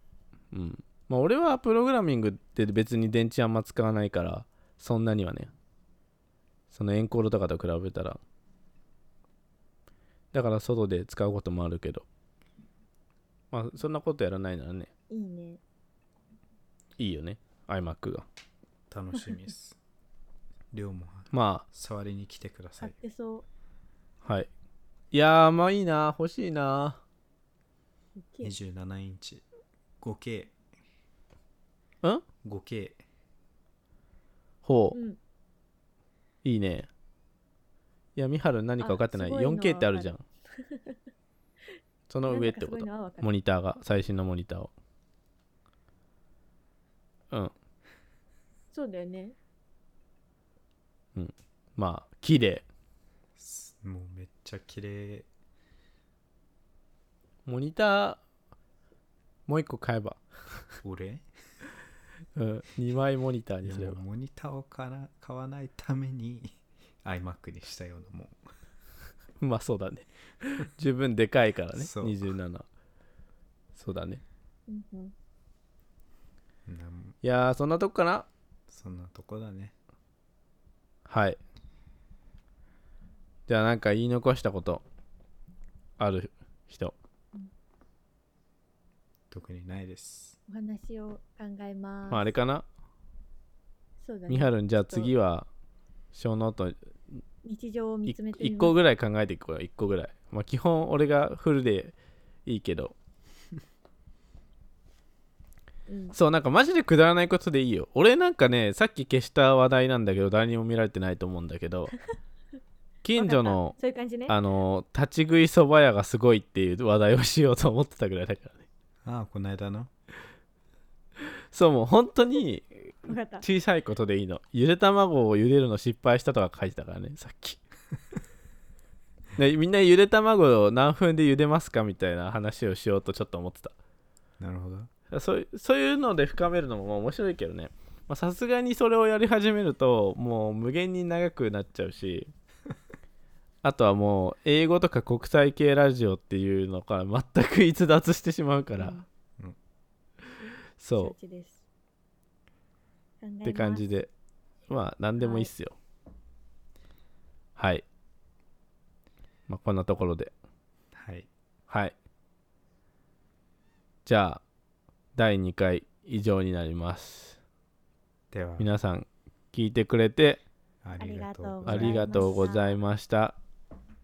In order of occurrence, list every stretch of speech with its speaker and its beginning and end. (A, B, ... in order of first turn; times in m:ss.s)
0:00.5-0:05.5 A
0:06.7-0:08.2 A
0:10.3-0:12.0 A
0:13.5-0:14.9 A
0:15.1-0:15.6 B
0:17.0-0:18.3 A
0:18.9-0:19.8 C
0:20.7-0:23.0 C
0:21.3-0:21.6 A
0:22.8-0:23.4 B
0:24.2-0:24.5 A
0:25.1-0:27.0 A
0:28.2-0:28.5 B
0:28.4-0:29.4 C
0:30.0-0:30.6 C
0:32.4-0:33.0 C
0:34.6-0:35.0 A
0:34.9-0:35.2 B
0:36.4-0:36.9 A
0:38.2-0:40.2 A
0:38.8-0:41.0 B
0:42.1-0:44.7 A
0:42.3-0:43.3 B
0:48.7-0:49.4 B
0:51.1-0:52.7 A
0:53.4-0:55.3 C
0:57.4-0:58.2 A
0:59.5-1:00.7 A
1:00.8-1:01.3 C
1:02.4-1:04.0 A
1:03.6-1:08.4 C
1:09.4-1:12.7 A
1:11.7-1:12.2 C
1:13.7-1:14.2 A
1:14.7-1:15.1 B
1:16.6-1:17.2 C
1:17.2-1:18.3 A
1:18.7-1:19.7 C
1:21.1-1:21.4 A
1:23.5-1:24.8 A
1:26.0-1:26.9 A
1:29.3-1:30.4 C
1:30.5-1:32.3 B
1:32.1-1:32.6 A
1:34.0-1:35.1 B
1:34.3-1:35.5 A
1:36.1-1:37.2 A
1:37.4-1:38.8 B
1:38.1-1:41.9 A
1:42.4-1:42.9 A
1:45.9-1:46.2 B
1:46.1-1:51.9 A
1:53.0-1:53.7 A
1:53.2-1:54.4 B
1:54.3-1:58.6 A
1:59.0-1:59.9 C
2:01.5-2:07.6 A
2:03.1-2:03.4 B
2:09.4-2:13.7 A
2:14.4-2:14.9 C
2:15.1-2:22.3 A
2:23.6-2:29.0 A
2:28.8-2:29.0 B
2:30.4-2:31.6 B
2:30.8-2:31.1 A
2:33.2-2:33.8 B
2:33.4-2:34.1 A
2:34.7-2:35.7 A
2:35.2-2:35.5 B
2:37.6-2:37.8 A
2:39.5-2:40.3 A
2:40.9-2:41.3 C
2:41.7-2:41.9 A
2:44.0-2:44.4 A
2:45.2-2:47.4 A
2:48.3-2:48.7 C
2:48.6-2:50.4 A
2:50.8-2:52.3 C
2:51.0-2:52.8 B
2:51.6-2:53.4 A